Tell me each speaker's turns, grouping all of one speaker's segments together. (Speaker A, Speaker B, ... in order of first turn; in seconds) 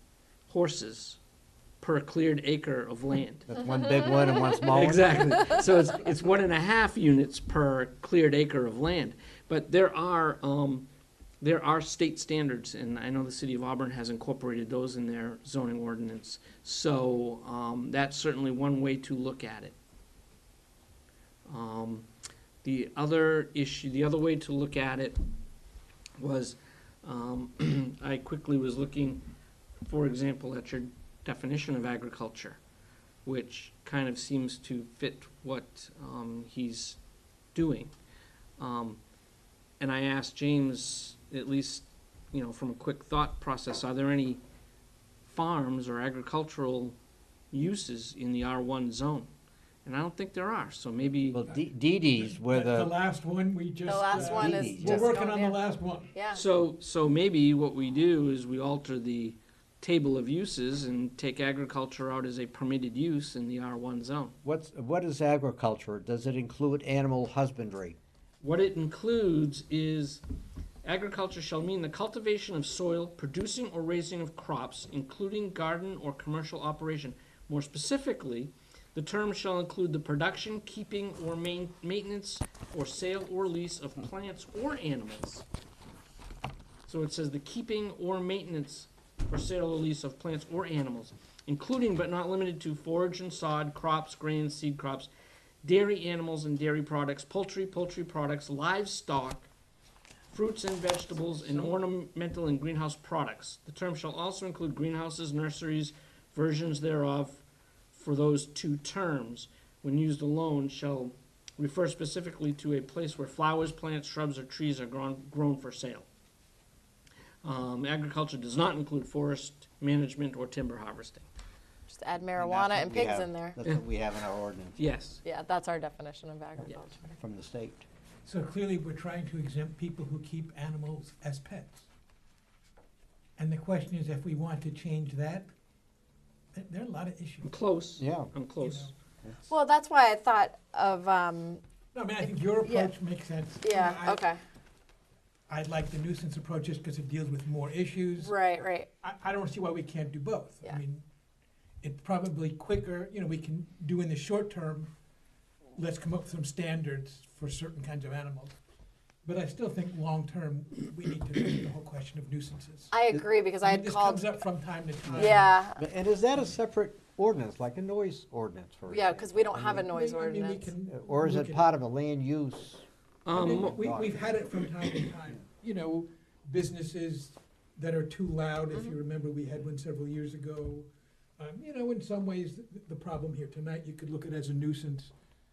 Speaker A: 0.5-1.2, 1.8-3.5, 4.6-10.9, 11.4-19.8, 21.5-22.1, 22.6-25.2, 26.2-29.2, 29.9-32.6, 33.2-37.0, 37.5-37.9, 38.6-39.0, 39.8-44.4, 45.2-47.0, 47.5-49.3, 49.8-51.4, 56.3-64.3, 68.4-70.2, 70.8-85.4, 86.8-95.1, 95.6-99.5, 100.3-107.4, 107.9-116.1, 117.4-121.3, 124.8-125.2, 137.4-138.9, 173.2-173.8
Speaker B: 3.5-5.2, 51.3-52.9, 54.1-55.1, 64.4-68.0, 122.3-124.8, 126.6-127.9, 138.0-138.3, 165.1-169.9, 170.9-172.8, 173.6-174.4
Speaker C: 52.2-56.1, 128.2-131.9, 133.4-135.5, 136.5-137.5, 138.6-138.9, 141.9-144.2, 145.5-148.3, 149.0-151.0, 151.8-154.9, 155.7-158.6, 159.2-162.9, 163.6-165.5, 169.8-171.6, 173.3-185.1
Speaker D: 53.9-55.6, 56.1-56.4, 121.9-123.6, 125.2-127.2, 139.5-141.6, 142.2-142.9, 143.6-144.4, 148.2-148.9, 162.9-164.4, 165.1-165.8, 168.9-170.7